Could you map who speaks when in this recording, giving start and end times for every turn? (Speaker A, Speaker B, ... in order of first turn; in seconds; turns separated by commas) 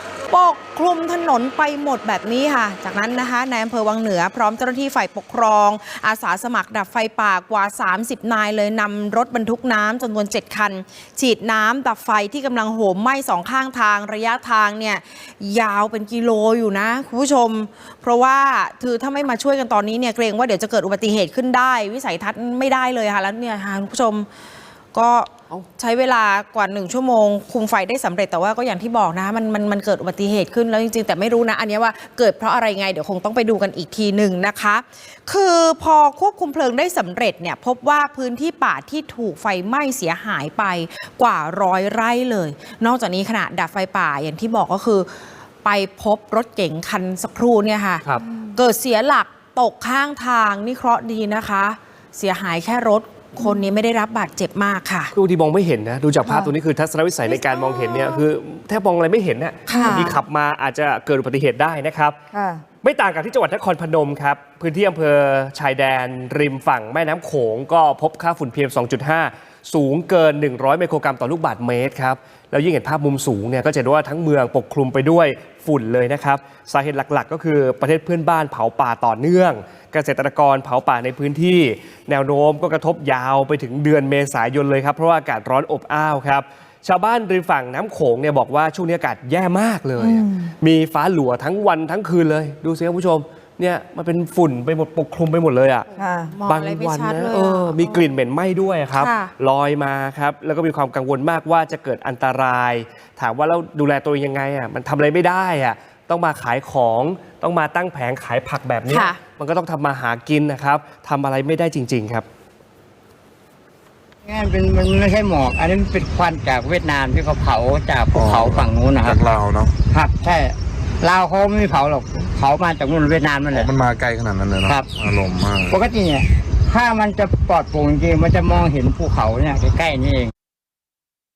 Speaker A: 0.3-24.3, Speaker A: 24.9-45.1, Speaker A: 45.6-55.1, Speaker B: 53.4-53.7, Speaker C: 55.1-62.2, Speaker B: 56.2-56.5, Speaker A: 57.3-58.2, Speaker A: 59.7-60.2, Speaker B: 59.7-60.2, Speaker B: 62.3-62.6, Speaker C: 62.8-95.9, Speaker B: 90.0-90.5, Speaker A: 95.9-98.1, Speaker B: 96.0-96.3, Speaker C: 96.5-112.3, Speaker A: 99.0-99.3, Speaker A: 108.9-109.2, Speaker D: 114.2-123.7, Speaker E: 118.1-119.8, Speaker E: 123.5-125.8, Speaker D: 124.6-124.9, Speaker D: 125.7-130.3